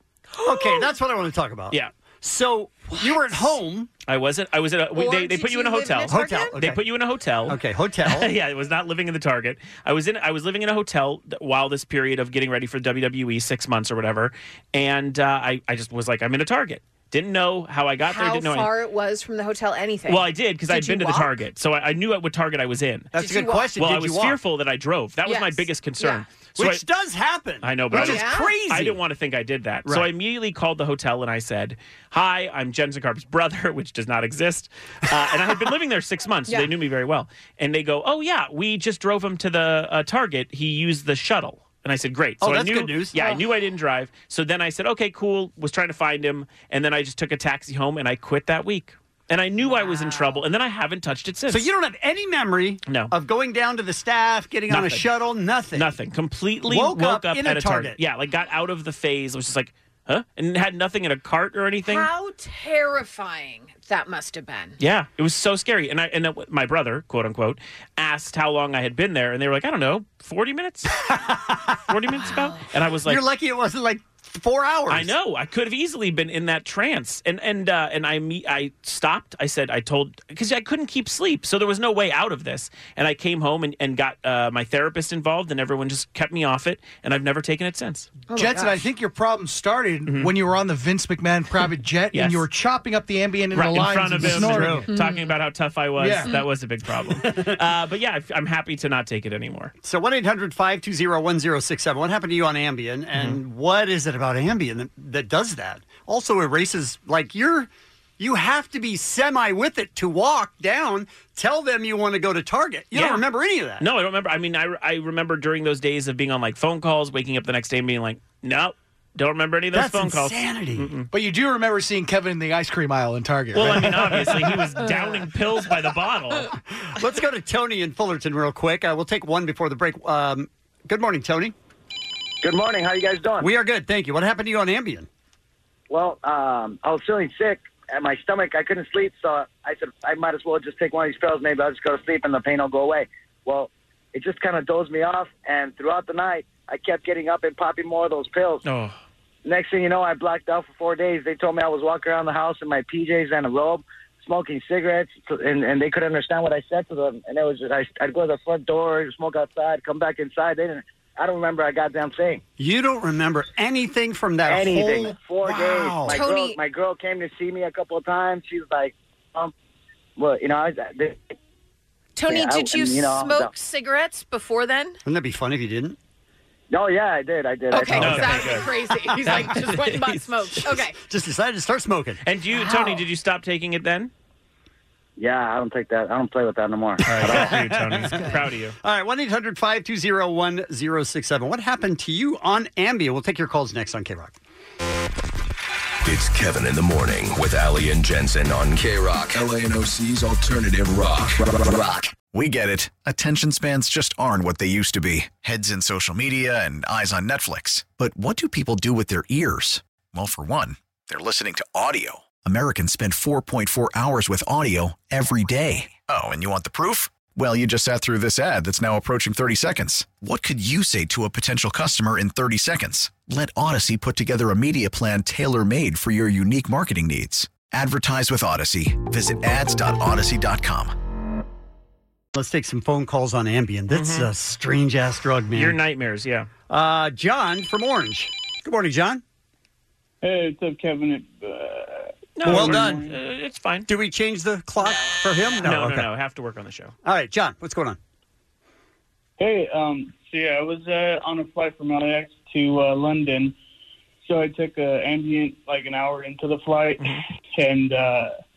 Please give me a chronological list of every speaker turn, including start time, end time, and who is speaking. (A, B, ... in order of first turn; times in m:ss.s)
0:00.4-0:00.9 A
0:00.4-0:03.9 B
0:02.9-0:03.6 A
0:04.1-0:07.6 C
0:04.9-0:06.6 A
0:06.1-0:06.8 B
0:07.5-0:08.3 B
0:08.2-0:18.7 C
0:18.0-0:21.4 A
0:20.1-0:23.1 C
0:23.1-0:24.4 B
0:23.2-0:23.8 A
0:23.8-0:26.8 C
0:25.2-0:26.3 A
0:26.6-0:29.0 B
0:27.6-0:51.6 C
0:27.9-0:28.6 A
0:29.8-0:30.1 B
0:36.5-0:36.8 A
0:42.4-0:43.3 B
0:43.2-0:43.4 A
0:49.6-0:50.4 A
0:51.5-0:56.0 B
0:52.9-0:53.1 C
0:54.7-0:55.0 C
0:55.8-1:02.0 C
0:56.7-0:58.0 B
1:01.8-1:04.8 A
1:04.8-1:10.9 C
1:11.1-1:11.8 B
1:11.9-1:13.2 C
1:12.1-1:12.7 A
1:13.0-1:15.2 B
1:14.9-1:28.1 C
1:28.3-1:28.8 A
1:28.4-1:34.8 D
1:33.6-1:39.7 C
1:34.1-1:34.9 B
1:34.9-1:35.4 A
1:36.0-1:36.3 D
1:39.8-1:53.9 B
1:53.0-1:53.2 C
1:53.8-2:01.1 C
1:59.7-2:01.0 B
2:01.1-2:04.1 D
2:03.6-2:04.6 B
2:03.6-2:06.4 C
2:04.8-2:05.2 A
2:06.8-2:11.6 B
2:12.4-2:13.5 E
2:13.4-2:15.1 B
2:15.9-2:28.6 E
2:29.4-2:42.4 E
2:42.6-2:46.2 B
2:44.5-2:49.5 E
2:46.1-2:46.6 A
2:50.2-2:51.3 E
2:52.2-2:55.0 A
2:52.3-2:53.5 E
2:55.1-2:56.0 B
2:56.7-2:58.0 E
2:57.7-3:01.0 A
2:57.9-2:58.5 B
2:58.1-2:58.6 C
2:59.3-3:00.1 C
3:01.0-3:02.2 B
3:02.3-3:04.1 C
3:02.5-3:03.1 A
3:05.2-3:07.4 E
3:07.1-3:14.4 B
3:07.1-3:08.7 C
3:08.0-3:08.5 A
3:16.0-3:22.1 F
3:22.3-3:50.9 G
3:52.4-3:55.8 B
3:56.7-3:59.2 B
4:00.2-4:03.2 H
4:02.4-4:03.1 B
4:03.9-4:06.1 B
4:07.0-4:08.0 B
4:09.4-4:13.6 H
4:14.2-4:18.4 H